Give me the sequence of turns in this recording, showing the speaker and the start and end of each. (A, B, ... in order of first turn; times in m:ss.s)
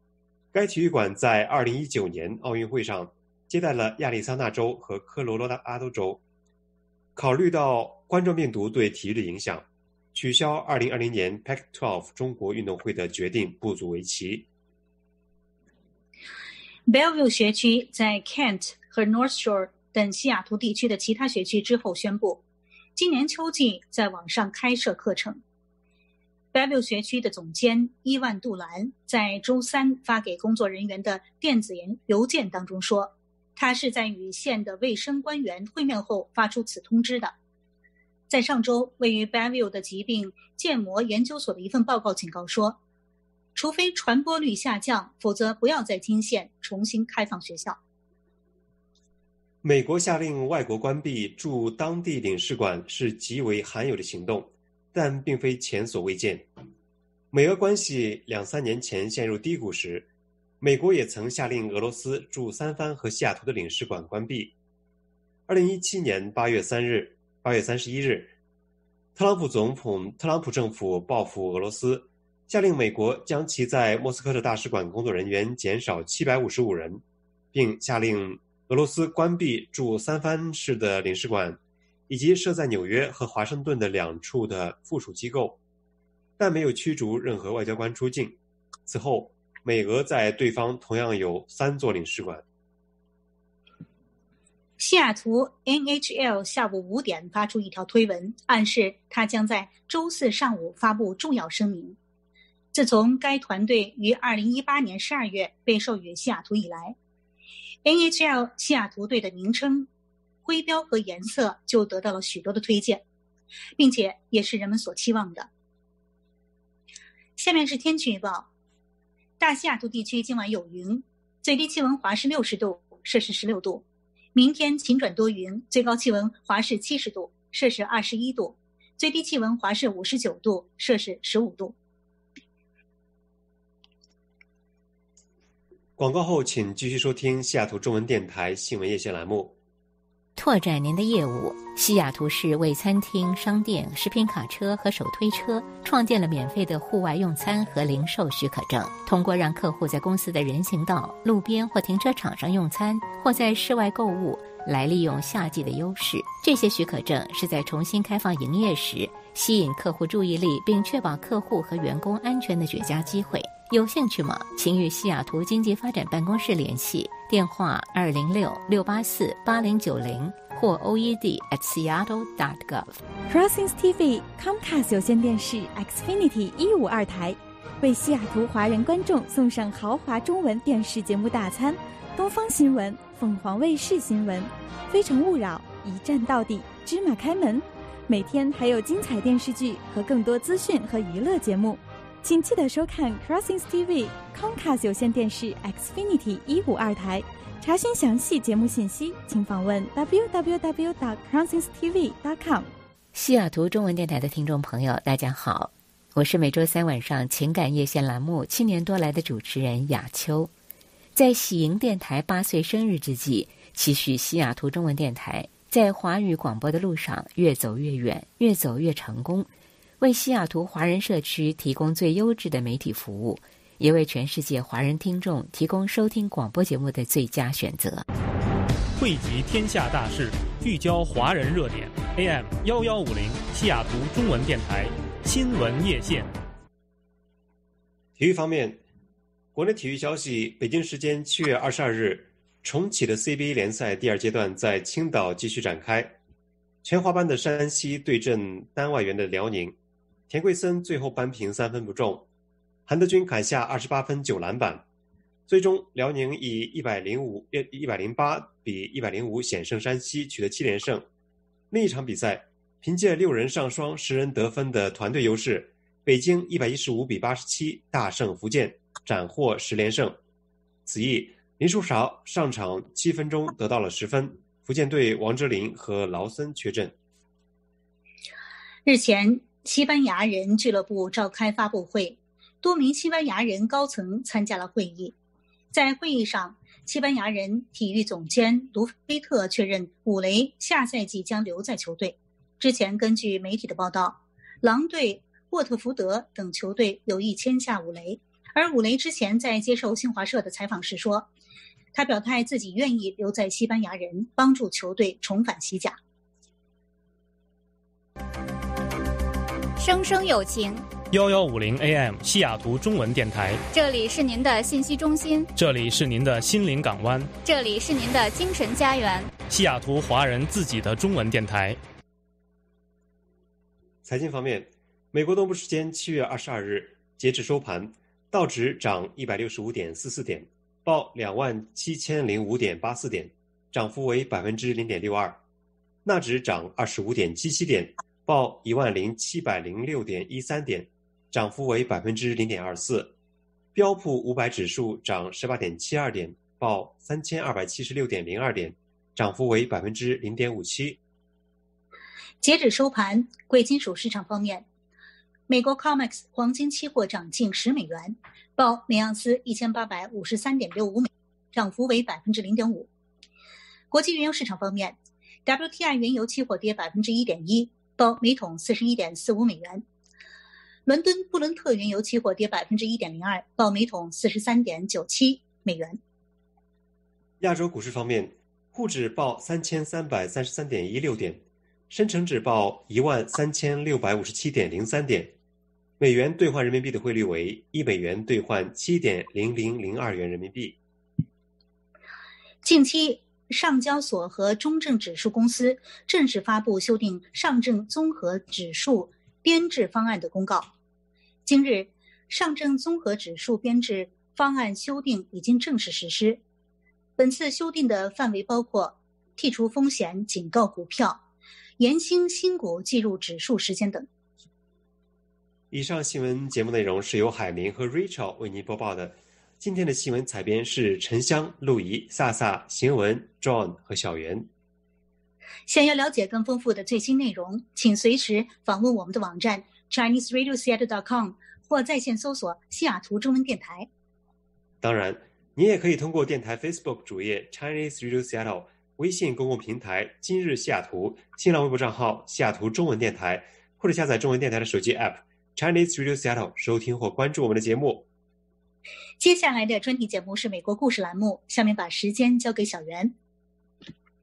0:00.5-0:06.2 A
0:07.2-0:14.5 A
0:16.9-0:22.4 B
0:23.0-0:25.4 B
0:26.5-0:37.4 B
0:38.3-0:42.8 B
0:43.6-0:47.8 B
0:49.6-0:56.5 A
0:57.3-1:00.1 A
1:00.6-1:04.5 A
1:05.5-1:08.3 A
1:09.2-1:25.6 A
1:26.4-1:32.4 A
1:34.8-1:42.0 B
1:42.7-1:47.0 B
1:47.8-1:49.9 B
1:50.4-1:53.0 B
1:53.8-1:55.5 B
1:57.4-1:58.5 B
1:59.4-2:11.8 B
2:16.0-2:19.6 A
2:20.4-2:53.0 C
2:53.3-3:22.7 D
3:23.1-3:30.5 C
3:31.2-3:48.0 C
3:49.0-3:56.3 E
3:58.2-3:58.8 A
3:59.5-4:06.2 A
4:06.8-4:09.8 A
4:10.3-4:12.3 A
4:12.9-4:14.8 A
4:15.5-4:21.1 A
4:21.7-4:30.2 A
4:30.9-4:37.0 A
4:38.8-4:45.2 B
4:45.7-5:01.3 B
5:01.9-5:06.0 B
5:09.8-5:10.9 F
5:11.1-5:13.6 E
5:13.7-5:15.5 F
5:15.6-5:17.3 E
5:17.4-5:19.3 F
5:19.5-5:21.8 E
5:24.0-5:35.4 A
5:36.0-5:43.1 A
5:43.8-5:51.0 A
5:52.4-5:54.7 B
5:55.5-6:02.9 B
6:03.9-6:09.8 B
6:10.9-6:16.0 B
6:17.4-6:25.4 A
6:26.0-6:30.8 A
6:32.6-6:40.7 B
6:41.4-6:46.4 B
6:47.2-6:51.2 B
6:51.8-6:54.1 B
6:55.7-7:04.5 A
7:05.7-7:13.9 B
7:14.8-7:28.1 A
7:29.2-7:33.1 B